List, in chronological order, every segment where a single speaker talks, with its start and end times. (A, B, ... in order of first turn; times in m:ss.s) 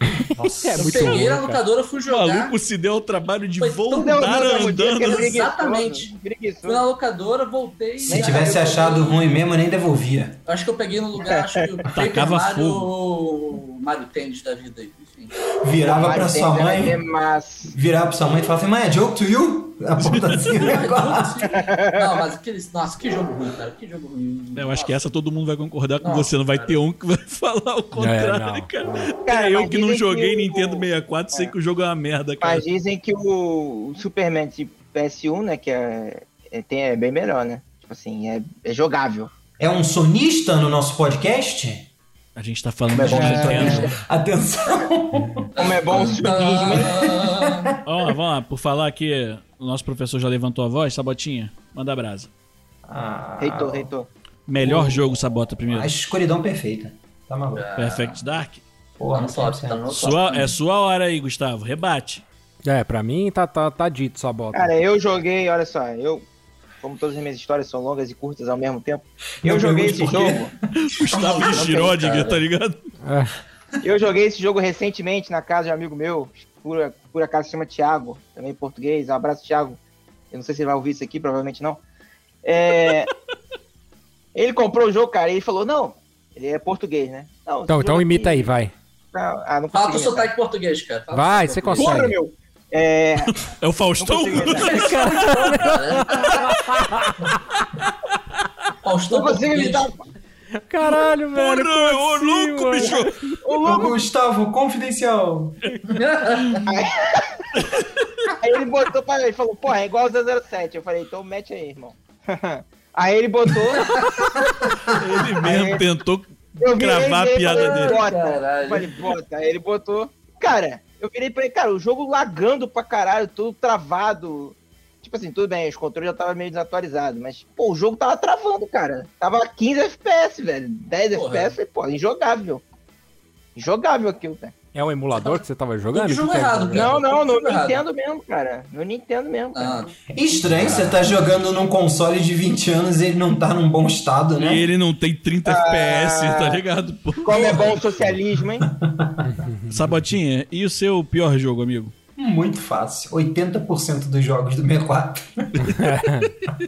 0:00.4-0:01.2 A
0:00.6-0:01.6 B
0:00.8-0:02.5 C
0:02.1-0:05.3 D
0:03.6-0:06.1 C
0:04.0-0:06.8 E
0:06.6-0:09.2 C
0:08.0-0:10.4 A
0:08.1-0:08.8 E
0:10.4-0:15.4 C
0:11.3-0:11.6 E
0:11.9-0:12.9 D
0:15.6-0:17.0 A
0:15.8-0:17.7 E
0:17.6-0:21.5 A
0:20.0-0:20.4 D
0:20.5-0:25.0 C
0:21.5-0:22.0 E
0:24.5-0:32.6 D
0:26.0-0:26.8 C
0:27.9-0:29.1 B
0:29.2-0:31.5 E
0:32.4-0:39.3 E
0:39.6-0:41.9 A
0:42.4-0:43.9 D
0:42.9-0:43.9 E
0:43.0-0:47.7 A
0:43.1-0:43.6 B
0:45.6-0:47.0 E
0:45.6-0:47.7 C
0:47.8-0:52.3 D
0:52.8-0:53.9 A
0:53.4-0:54.1 E
0:54.5-0:55.9 D
0:54.6-0:57.7 A
0:57.5-0:58.2 C
0:57.8-0:58.6 D
0:59.0-0:59.9 A
0:59.1-1:00.6 C
0:59.9-1:02.2 D
1:02.6-1:04.8 B
1:04.5-1:06.2 E
1:06.8-1:10.5 E
1:09.4-1:10.5 A
1:10.8-1:12.9 D
1:11.1-1:12.4 C
1:11.2-1:12.3 E
1:13.0-1:13.4 B
1:13.8-1:19.8 E
1:20.3-1:21.8 E
1:22.4-1:23.1 E
1:24.3-1:28.5 E
1:27.7-1:28.7 B
1:29.1-1:30.3 E
1:29.7-1:32.0 C
1:31.1-1:32.2 B
1:31.8-1:33.4 E
1:33.4-1:35.6 D
1:34.0-1:34.8 E
1:34.6-1:37.4 B
1:34.7-1:36.4 C
1:38.8-1:39.9 C
1:39.1-1:40.0 E
1:40.5-1:43.3 B
1:40.8-1:43.2 D
1:43.4-1:44.0 E
1:43.6-1:46.0 A
1:46.0-1:46.7 C
1:46.3-1:46.6 D
1:46.6-1:47.5 E
1:47.5-1:48.3 D
1:48.3-1:54.5 E
1:55.0-1:58.0 D
1:55.4-1:55.8 E
1:56.6-2:12.6 E
1:57.5-1:59.0 C
2:11.1-2:11.6 C
2:13.5-2:14.5 E
2:14.7-2:16.9 B
2:15.2-2:17.8 C
2:16.7-2:19.9 E
2:19.5-2:19.9 C
2:20.1-2:24.7 A
2:20.7-2:21.0 C
2:24.4-2:27.7 D
2:25.4-2:26.6 E
2:27.2-2:28.6 E
2:28.6-2:29.3 A
2:29.2-2:30.0 B
2:29.7-2:31.9 D
2:32.2-2:35.9 A
2:35.7-2:36.3 B
2:35.7-2:36.5 D